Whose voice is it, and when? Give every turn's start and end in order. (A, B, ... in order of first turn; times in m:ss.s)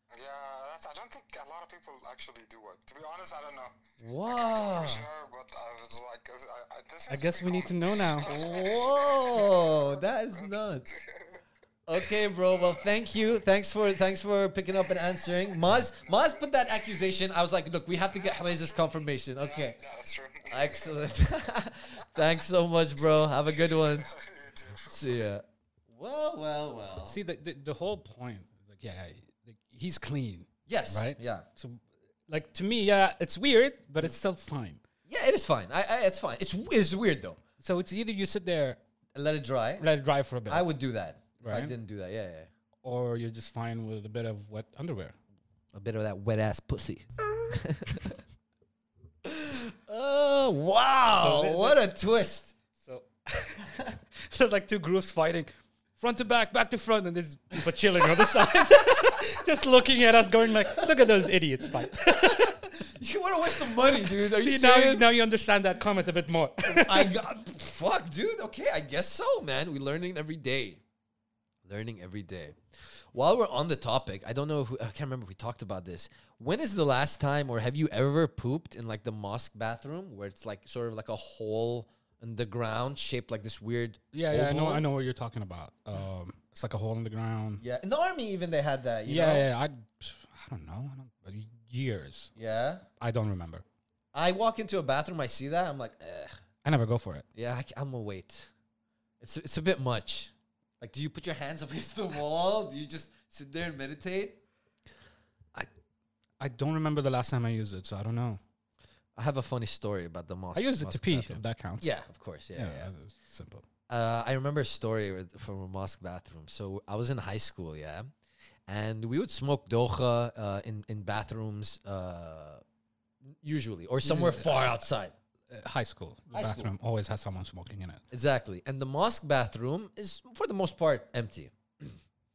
0:00.1-0:11.4 A
0:04.0-0:05.0 B
0:07.1-0:08.3 C
0:08.2-0:11.0 B
0:11.9-0:19.8 B
0:12.5-0:12.9 A
0:16.1-0:16.8 A
0:18.1-0:18.8 A
0:19.4-0:21.1 A
0:20.5-0:24.1 B
0:23.5-0:25.2 A
0:24.9-0:27.2 B
0:27.1-0:34.8 C
0:30.7-0:31.4 B
0:35.1-0:37.4 B
0:37.6-0:38.8 C
0:39.1-0:39.9 B
0:39.8-0:40.6 C
0:40.5-0:42.5 B
0:41.4-0:41.7 C
0:42.8-0:45.2 C
0:45.7-0:48.2 B
0:49.2-0:52.5 B
0:51.1-0:51.8 C
0:52.7-1:02.6 C
0:58.0-0:59.1 B
1:00.8-1:01.1 B
1:01.9-1:05.1 B
1:03.5-1:07.1 C
1:06.6-1:10.8 B
1:11.6-1:12.6 B
1:13.1-1:24.8 B
1:24.1-1:27.6 C
1:27.6-1:29.5 B
1:29.1-1:32.3 C
1:32.4-1:32.8 B
1:33.0-1:33.6 C
1:34.1-1:36.3 B
1:36.6-1:37.2 C
1:37.4-1:38.5 B
1:39.2-1:44.4 B
1:46.4-1:48.4 C
1:49.2-1:52.9 B
1:50.5-1:51.9 C
1:52.5-1:53.6 C
1:53.9-1:58.1 B
1:58.7-2:02.6 B
2:03.3-2:05.1 B
2:04.0-2:04.8 C
2:05.5-2:08.0 C
2:06.3-2:06.7 B
2:08.1-2:12.0 B